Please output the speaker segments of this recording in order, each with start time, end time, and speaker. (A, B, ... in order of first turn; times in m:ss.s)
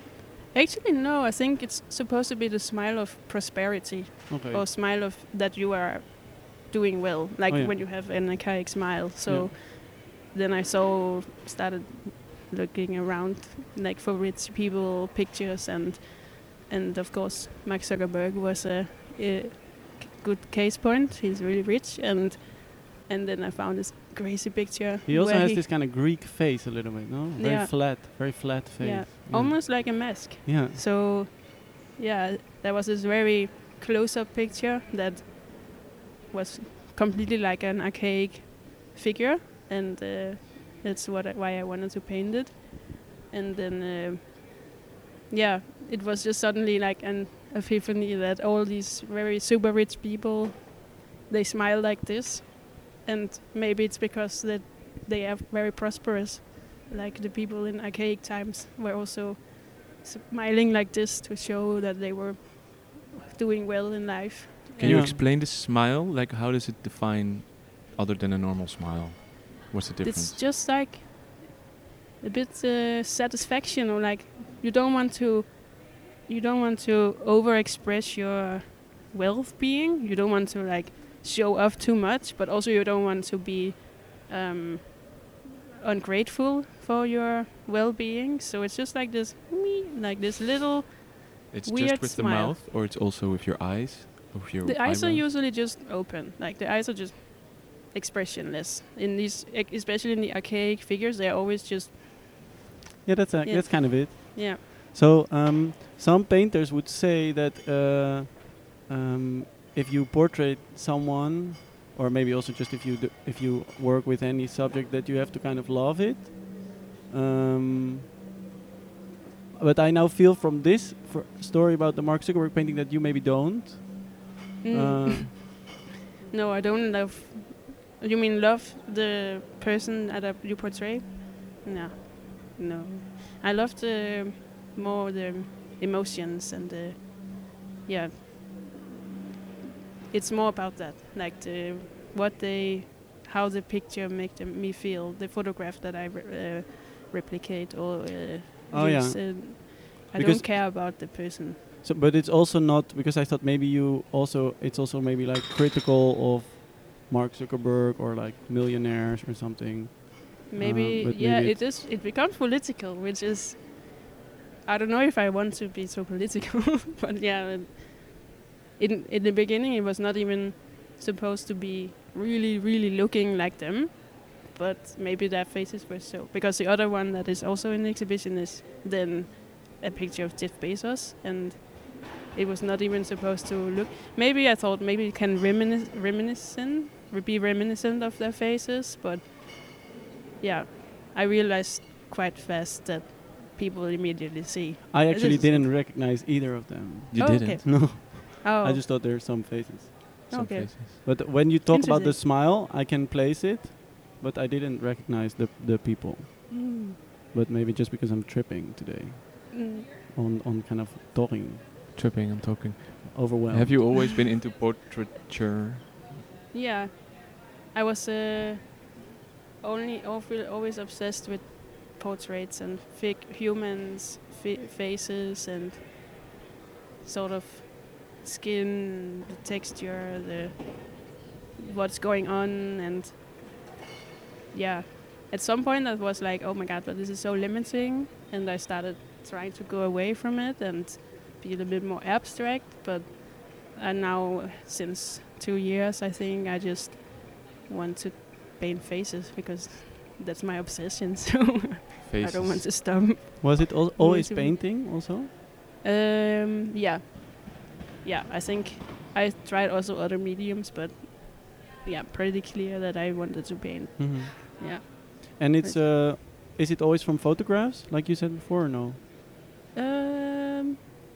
0:00.5-0:25.6 A
0:04.3-0:04.6 B
0:07.5-0:07.8 B
0:09.3-0:09.5 B
0:25.1-0:30.8 B
0:27.4-0:27.8 A
0:28.8-0:44.8 A
0:45.3-1:05.2 A
1:04.8-1:10.4 C
1:04.8-1:05.2 B
1:10.0-1:11.6 A
1:12.2-1:32.6 A
1:31.5-1:35.3 C
1:34.6-1:42.0 A
1:43.0-1:58.0 B
1:43.4-1:44.6 A
1:59.5-2:05.4 B
2:04.6-2:05.7 A
2:06.3-2:18.7 A
2:20.1-2:31.6 A
2:28.7-2:30.6 B
2:31.8-2:41.6 B
2:40.5-2:44.0 A
2:44.6-3:09.8 A
3:10.4-3:15.7 A
3:14.9-3:20.3 B
3:17.1-3:17.6 C
3:17.2-3:18.8 A
3:20.3-3:22.2 A
3:20.3-3:21.0 C
3:21.0-3:26.8 B
3:26.5-3:27.0 A
3:27.3-3:31.6 B
3:29.5-3:29.9 A
3:32.0-3:36.2 C
3:33.1-3:33.8 B
3:36.5-3:39.0 A
3:39.6-3:46.1 A
3:47.0-3:53.4 A
3:54.5-4:14.6 A
4:12.1-4:12.6 C
4:13.4-4:15.3 B
4:15.8-4:25.8 A
4:24.0-4:29.0 B
4:29.7-4:30.9 A